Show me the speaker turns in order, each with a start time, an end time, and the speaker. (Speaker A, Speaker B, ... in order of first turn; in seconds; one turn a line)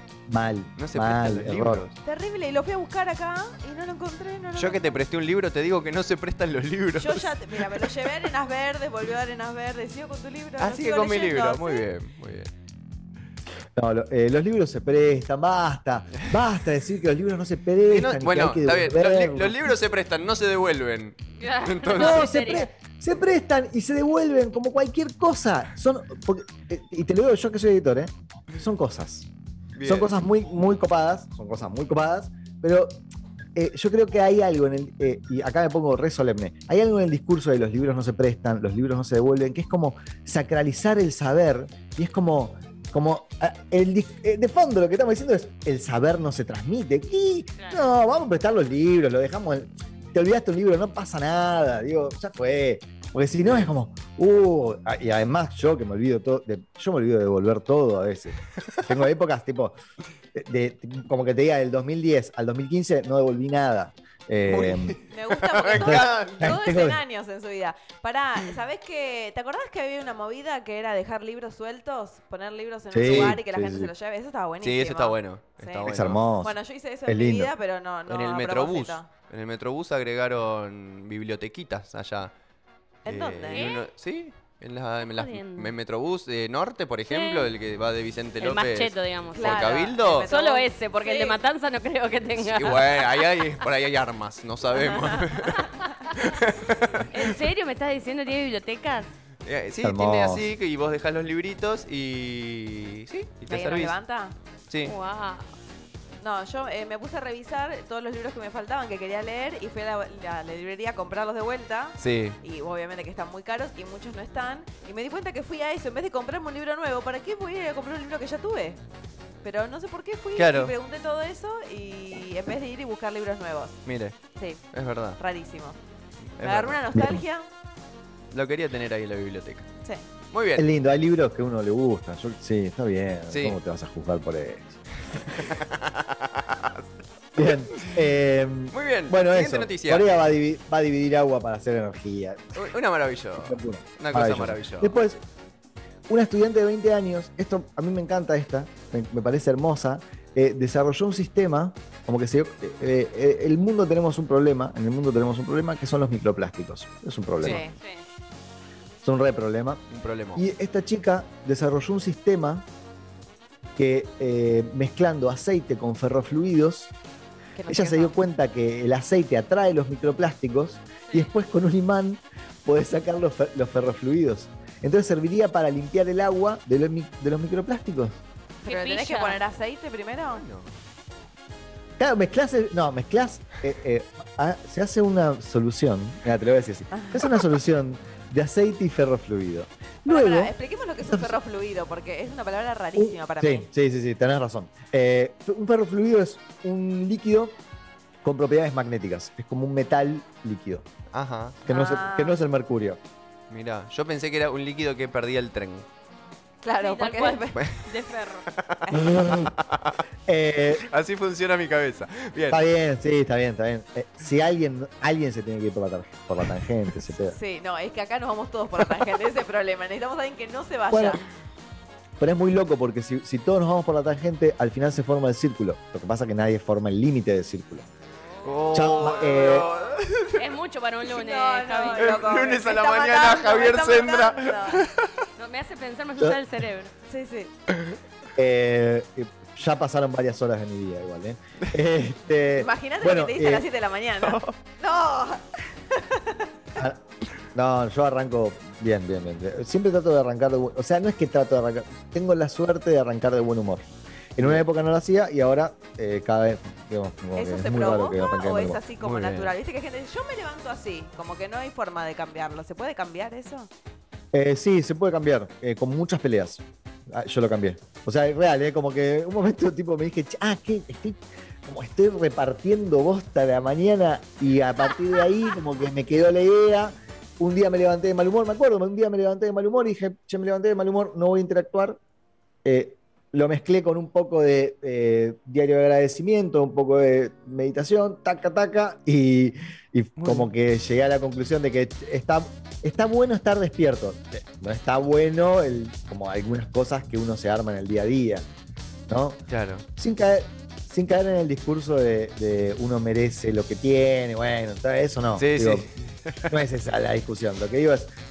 Speaker A: 0.3-1.9
Speaker B: 0.8-2.0
Speaker C: 2.0-5.0
Speaker B: 4.6-7.9
Speaker C: 7.0-11.8
Speaker B: 10.6-12.5
Speaker A: 13.8-19.8
Speaker B: 17.9-22.3
Speaker D: 21.4-22.7
Speaker A: 21.9-29.3
Speaker B: 29.8-30.1
Speaker A: 29.8-33.0
Speaker A: 33.6-59.8
Speaker B: 53.4-53.7
Speaker A: 60.3-65.0
Speaker B: 64.4-66.6
Speaker C: 65.1-79.1
Speaker A: 65.7-67.0
Speaker A: 72.9-73.9
Speaker B: 73.0-73.4
Speaker B: 74.6-76.2
Speaker A: 75.8-76.5
Speaker A: 77.1-77.5
Speaker B: 78.1-82.3
Speaker C: 83.0-83.8
Speaker B: 83.1-90.3
Speaker D: 83.5-83.8
Speaker D: 85.0-85.7
Speaker D: 87.1-87.5
Speaker D: 88.4-93.2
Speaker C: 89.3-91.4
Speaker B: 92.4-97.4
Speaker C: 94.7-95.8
Speaker D: 97.1-99.1
Speaker B: 99.4-104.0
Speaker A: 99.8-100.5
Speaker C: 103.5-104.3
Speaker B: 104.7-105.0
Speaker D: 104.8-105.5
Speaker C: 106.2-118.8
Speaker B: 112.0-112.4
Speaker C: 119.4-123.8
Speaker B: 120.3-120.7
Speaker B: 123.8-124.2
Speaker C: 124.4-124.6
Speaker B: 124.7-125.2
Speaker C: 125.2-125.8
Speaker B: 126.4-126.8
Speaker C: 126.4-127.5
Speaker A: 126.9-127.2
Speaker B: 128.3-129.7
Speaker B: 130.3-130.7
Speaker A: 130.6-135.5
Speaker B: 133.3-133.6
Speaker B: 135.3-138.0
Speaker A: 137.3-142.7
Speaker B: 138.7-140.1
Speaker B: 142.6-145.0
Speaker A: 143.4-145.2
Speaker A: 146.1-157.6
Speaker C: 157.4-157.8
Speaker A: 159.0-159.8
Speaker B: 159.9-160.4
Speaker A: 160.4-162.7
Speaker A: 163.8-166.9
Speaker C: 167.6-168.2
Speaker A: 167.7-178.2
Speaker C: 178.6-180.4
Speaker D: 178.7-179.4
Speaker B: 180.3-180.7
Speaker A: 182.0-191.4
Speaker C: 186.9-187.3
Speaker C: 190.1-193.7
Speaker A: 192.9-197.6
Speaker A: 198.2-200.9
Speaker B: 201.1-201.7
Speaker A: 201.7-203.0
Speaker C: 201.7-202.4
Speaker B: 203.5-205.9
Speaker C: 206.6-207.6
Speaker D: 206.8-208.5
Speaker B: 207.6-207.9
Speaker B: 208.5-210.0
Speaker C: 208.9-209.2
Speaker A: 208.9-209.5
Speaker A: 210.3-210.9
Speaker B: 210.8-212.6
Speaker A: 212.5-217.4
Speaker C: 217.3-221.2
Speaker A: 220.9-221.2
Speaker A: 222.2-227.9
Speaker B: 228.4-230.4
Speaker A: 228.7-229.7
Speaker D: 230.3-232.2
Speaker C: 231.0-234.9
Speaker B: 231.9-235.1
Speaker D: 235.4-236.9
Speaker C: 237.1-237.5
Speaker A: 238.4-243.7
Speaker C: 242.6-246.5
Speaker B: 244.2-244.6
Speaker A: 246.8-247.0
Speaker A: 247.5-258.8
Speaker C: 257.4-263.7
Speaker B: 259.0-259.5
Speaker A: 264.3-282.0
Speaker A: 282.6-298.5
Speaker B: 290.2-290.5
Speaker A: 299.1-299.4
Speaker B: 299.5-299.9
Speaker A: 300.0-305.9
Speaker B: 305.4-306.6
Speaker A: 306.5-308.1